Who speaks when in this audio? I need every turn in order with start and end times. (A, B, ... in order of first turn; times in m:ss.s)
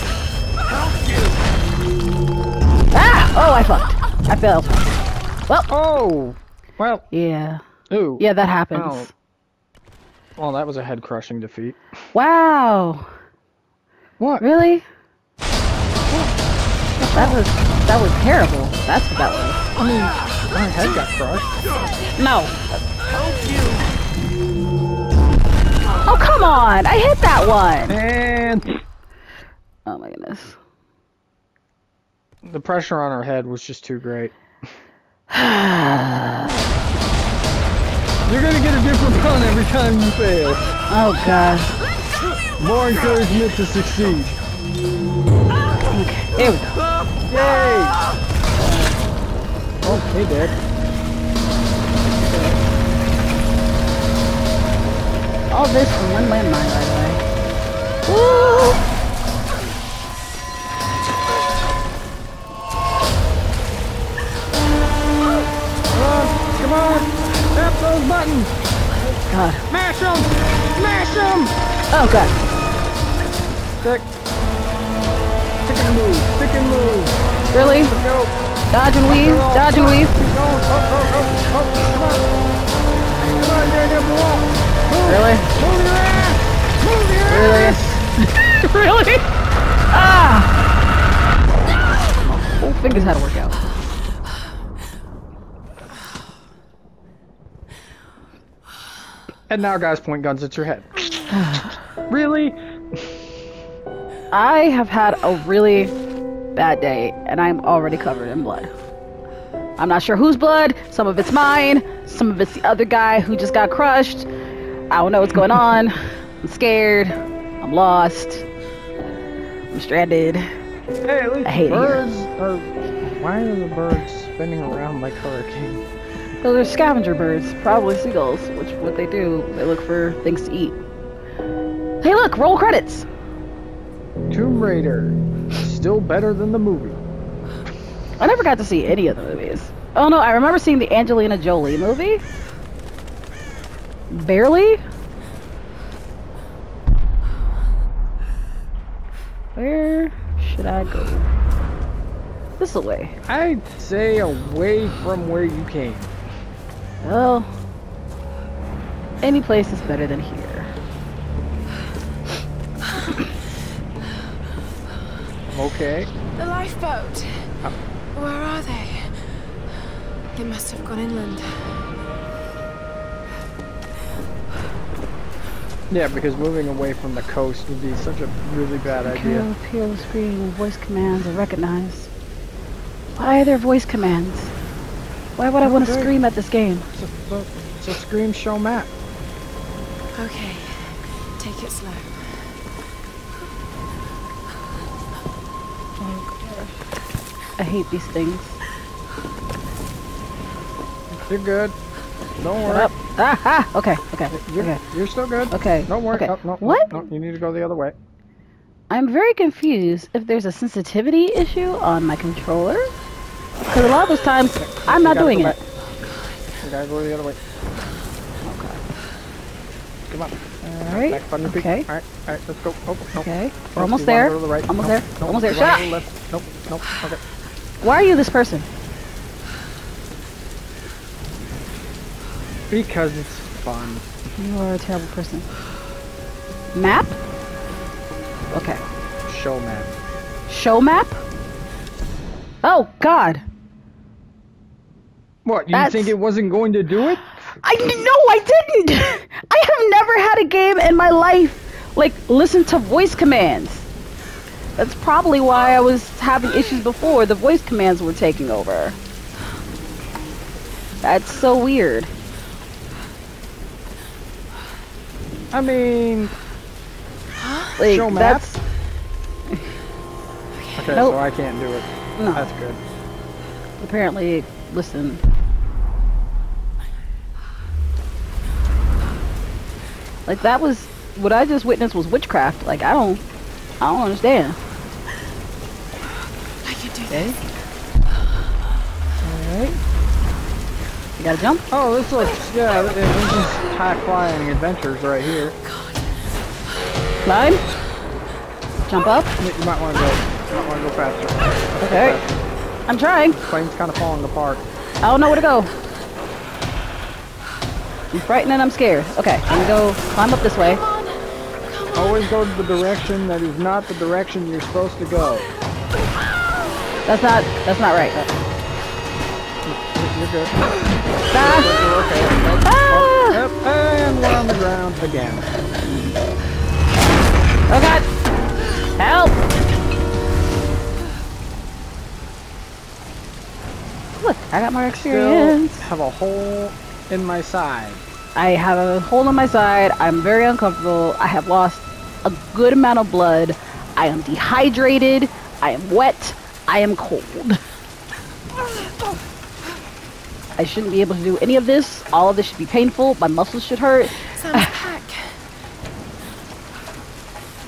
0:02.9-0:04.8 A
0:05.7-0:07.1 B
0:07.1-0:07.6 A
0:07.9-0:09.1 B
0:08.2-0:09.1 A
0:10.4-0:11.8 B
0:12.1-0:13.1 A
0:14.2-0:14.5 B
0:14.4-0:14.8 A
0:17.0-0:17.4 B
0:17.1-0:19.6 A
0:19.8-0:21.6 B
0:22.2-0:22.6 A
0:26.1-0:28.0 A
0:27.9-0:28.8 B
0:29.9-0:30.6 A
0:32.4-0:34.3 B
0:35.3-0:36.6 A
0:38.3-0:40.7 B
0:40.9-0:41.7 A
0:42.6-0:44.4 B
0:45.9-0:46.6 A
0:47.3-0:48.0 B
0:48.6-0:49.0 A
0:49.8-0:50.6 B
0:52.2-0:52.6 A
0:55.5-0:57.2 A
0:58.1-0:58.8 A
1:05.9-1:08.5 B
1:09.3-1:09.6 A
1:09.7-1:11.6 B
1:11.9-1:12.4 A
1:13.8-1:14.1 B
1:15.6-1:17.2 B
1:17.5-1:18.0 A
1:17.8-1:18.4 B
1:18.7-1:20.1 A
1:19.0-1:22.3 B
1:23.3-1:28.0 B
1:25.1-1:25.5 A
1:27.3-1:29.2 A
1:29.9-1:30.5 A
1:32.3-1:33.6 A
1:32.9-1:33.2 B
1:39.5-1:43.2 B
1:41.4-1:41.7 A
1:44.3-1:45.9 A
1:46.6-1:48.7 A
1:49.8-1:54.3 A
1:54.9-1:58.4 A
1:59.7-2:00.5 A
2:01.0-2:05.8 B
2:01.4-2:02.0 A
2:06.4-2:10.8 A
2:12.0-2:13.1 A
2:14.3-2:17.0 B
2:18.2-2:22.2 A
2:24.1-2:24.8 A
2:29.6-2:31.3 A
2:32.6-2:33.2 A
2:33.3-2:36.1 B
2:37.0-2:37.5 A
2:39.2-2:40.7 A
2:45.5-2:46.1 B
2:46.4-2:47.5 C
2:48.1-2:49.2 C
2:50.4-2:51.7 C
2:55.9-2:59.5 B
2:59.0-3:02.1 A
3:03.2-3:04.5 A
3:05.4-3:06.9 A
3:05.6-3:06.1 B
3:06.9-3:08.9 B
3:10.2-3:12.5 C
3:16.0-3:16.8 A
3:17.6-3:18.6 A
3:21.3-3:21.8 B
3:22.4-3:22.9 B
3:22.6-3:24.8 A
3:24.3-3:28.0 B
3:25.5-3:27.0 A
3:28.9-3:32.9 A
3:33.7-3:35.6 A
3:34.6-3:35.6 B
3:36.6-3:37.4 B
3:38.4-3:38.8 A
3:40.1-3:47.2 B
3:40.6-3:41.9 A
3:43.2-3:45.8 A
3:47.8-3:48.7 A
3:52.7-3:54.0 B
3:54.4-3:55.5 A
3:56.7-3:57.2 A
3:58.5-3:58.8 A
3:59.3-3:59.9 B
4:00.5-4:01.2 A
4:02.6-4:03.4 A
4:05.4-4:07.3 B
4:05.7-4:06.2 A
4:07.6-4:13.9 A
4:14.8-4:19.0 A
4:21.0-4:22.1 A
4:25.5-4:26.3 B
4:27.4-4:27.7 C
4:27.8-4:28.6 A
4:27.8-4:28.6 B
4:30.8-4:32.8 B
4:30.9-4:31.2 A
4:32.2-4:32.5 A
4:33.8-4:35.2 A
4:40.3-4:43.2 A
4:43.8-4:44.6 A
4:46.6-4:47.3 C
4:49.2-4:49.8 B
4:51.2-4:51.6 A
4:51.7-4:55.6 B
4:55.6-4:56.3 C
4:57.3-4:57.6 A
4:58.9-4:59.3 A
4:59.4-5:02.5 B
5:01.8-5:02.2 A
5:02.9-5:03.4 A
5:03.3-5:04.6 B
5:05.0-5:05.7 A
5:08.1-5:10.8 A
5:10.7-5:12.3 C
5:12.0-5:15.5 B
5:17.1-5:18.2 A
5:19.6-5:20.8 B
5:21.3-5:25.5 B
5:21.3-5:21.7 A
5:22.6-5:23.4 A
5:27.7-5:28.1 A
5:29.0-5:29.4 A
5:34.2-5:35.8 A
5:34.9-5:38.0 B
5:38.4-5:47.6 A
5:48.7-5:49.2 C
5:50.6-5:54.7 A
5:54.2-5:55.4 C